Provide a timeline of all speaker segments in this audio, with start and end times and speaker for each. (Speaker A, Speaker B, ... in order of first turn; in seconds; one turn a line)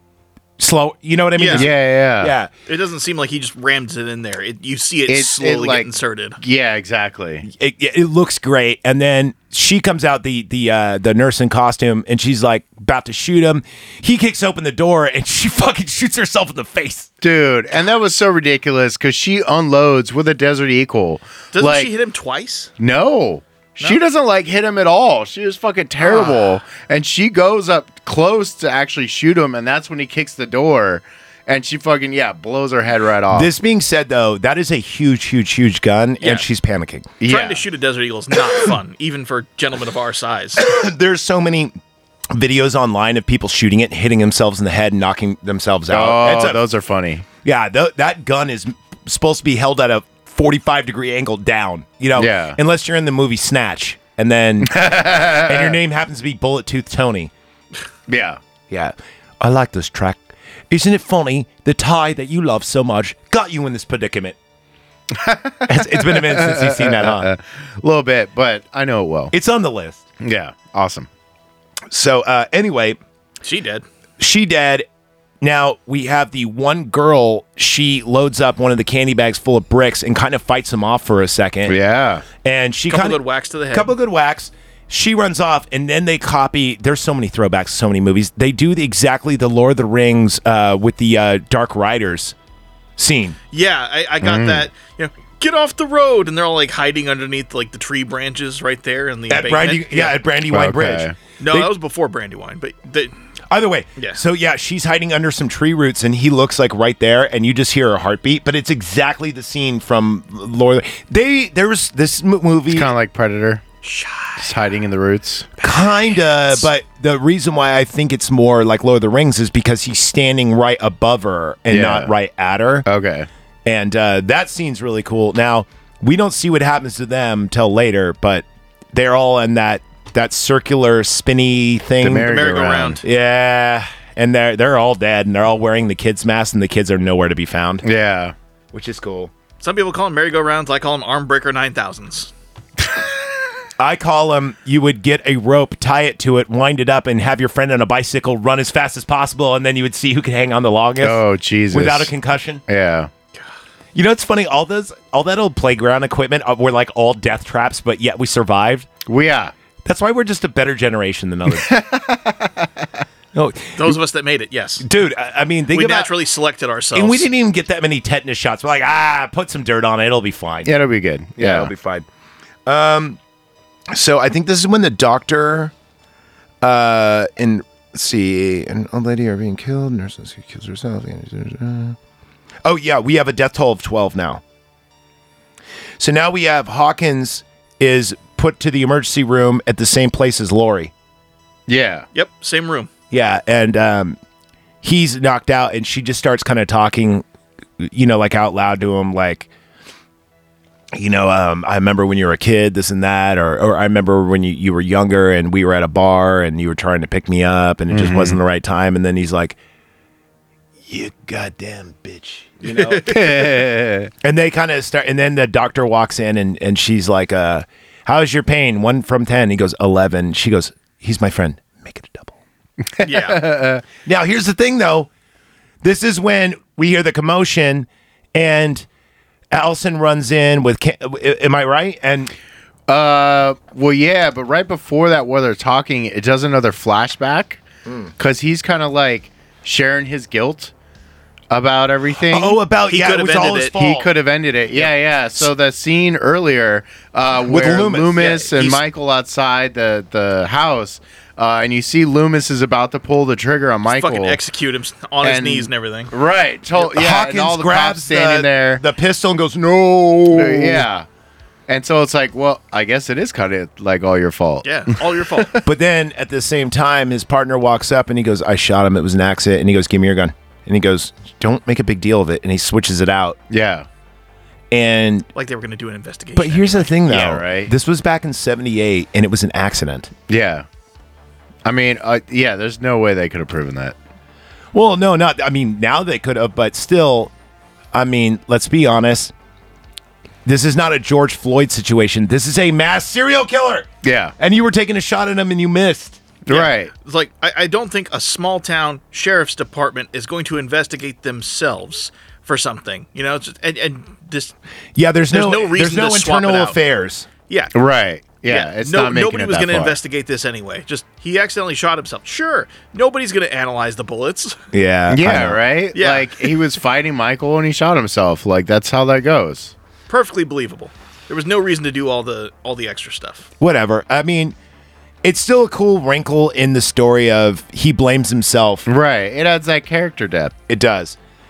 Speaker A: 0.6-2.5
Speaker B: 1.4-1.7
Speaker C: 1.5-2.3
Speaker B: 2.7-6.4
Speaker C: 5.1-7.4
Speaker A: 7.4-17.1
Speaker C: 17.2-21.9
Speaker B: 21.5-22.7
Speaker C: 22.8-33.5
Speaker B: 26.0-26.6
Speaker A: 33.3-37.1
Speaker C: 37.2-37.6
Speaker B: 37.2-40.6
Speaker A: 40.6-41.7
Speaker A: 42.3-46.6
Speaker C: 45.9-47.2
Speaker A: 47.4-57.3
Speaker C: 52.1-52.6
Speaker C: 54.6-55.7
Speaker C: 58.1-58.4
Speaker A: 58.7-64.3
Speaker C: 65.1-69.3
Speaker A: 65.7-67.3
Speaker A: 69.3-70.0
Speaker C: 70.2-71.1
Speaker A: 71.9-73.0
Speaker B: 73.4-73.8
Speaker A: 74.2-74.9
Speaker A: 75.4-81.8
Speaker C: 81.7-82.2
Speaker A: 82.3-92.3
Speaker B: 82.9-83.9
Speaker A: 93.0-93.4
Speaker B: 93.5-100.2
Speaker C: 94.2-94.7
Speaker A: 99.3-101.7
Speaker C: 100.5-101.1
Speaker B: 101.4-103.1
Speaker A: 103.5-112.9
Speaker C: 112.7-113.6
Speaker B: 113.8-114.6
Speaker C: 114.4-115.5
Speaker B: 115.6-116.7
Speaker A: 115.6-122.8
Speaker C: 121.7-122.1
Speaker C: 122.8-123.3
Speaker A: 123.6-132.4
Speaker C: 132.0-133.0
Speaker B: 132.2-133.0
Speaker A: 133.0-137.8
Speaker C: 137.8-138.3
Speaker A: 138.7-139.3
Speaker B: 139.6-142.3
Speaker A: 143.8-152.6
Speaker C: 151.0-152.1
Speaker C: 152.7-153.1
Speaker A: 153.9-158.9
Speaker C: 159.1-159.5
Speaker A: 159.8-161.7
Speaker C: 161.5-162.8
Speaker A: 163.3-164.0
Speaker B: 163.8-164.9
Speaker A: 164.8-166.1
Speaker B: 165.7-167.3
Speaker A: 166.9-170.7
Speaker C: 170.6-171.7
Speaker A: 171.4-172.1
Speaker A: 172.7-173.2
Speaker A: 173.9-175.7
Speaker A: 176.6-182.0
Speaker A: 182.6-184.4
Speaker A: 186.0-190.9
Speaker C: 191.7-192.1
Speaker B: 192.1-192.9
Speaker A: 193.1-194.2
Speaker A: 194.8-197.2
Speaker A: 197.8-199.5
Speaker A: 200.9-209.6
Speaker C: 207.9-208.4
Speaker A: 210.9-213.3
Speaker B: 212.7-213.3
Speaker C: 213.1-214.1
Speaker A: 214.2-222.4
Speaker C: 223.0-223.8
Speaker B: 223.0-223.4
Speaker A: 224.0-225.1
Speaker A: 225.8-228.8
Speaker A: 229.5-232.3
Speaker C: 232.9-237.6
Speaker A: 237.8-238.1
Speaker C: 238.2-240.7
Speaker C: 241.5-242.6
Speaker A: 242.3-244.1
Speaker B: 242.9-243.7
Speaker C: 243.7-254.4
Speaker A: 247.4-248.8
Speaker B: 253.9-256.1
Speaker C: 255.2-258.8
Speaker A: 256.8-260.9
Speaker C: 260.3-261.1
Speaker C: 261.7-264.7
Speaker B: 264.6-265.6
Speaker A: 265.6-273.4
Speaker C: 273.5-273.9
Speaker A: 274.7-275.3
Speaker B: 275.4-276.9
Speaker A: 276.4-280.1
Speaker C: 277.0-277.7
Speaker C: 280.3-280.6
Speaker C: 281.6-283.9
Speaker A: 284.7-287.3
Speaker A: 287.9-289.3
Speaker A: 290.4-296.2
Speaker C: 294.0-294.3
Speaker C: 296.4-296.9
Speaker B: 296.5-304.5
Speaker A: 304.9-307.3
Speaker B: 305.3-306.8
Speaker B: 307.5-307.7
Speaker C: 307.7-310.0
Speaker B: 308.4-314.6
Speaker A: 314.7-315.6
Speaker C: 315.1-319.7
Speaker B: 315.9-316.5
Speaker B: 320.1-323.5
Speaker A: 323.6-324.6
Speaker A: 325.2-328.9
Speaker C: 328.9-330.5
Speaker A: 330.7-331.1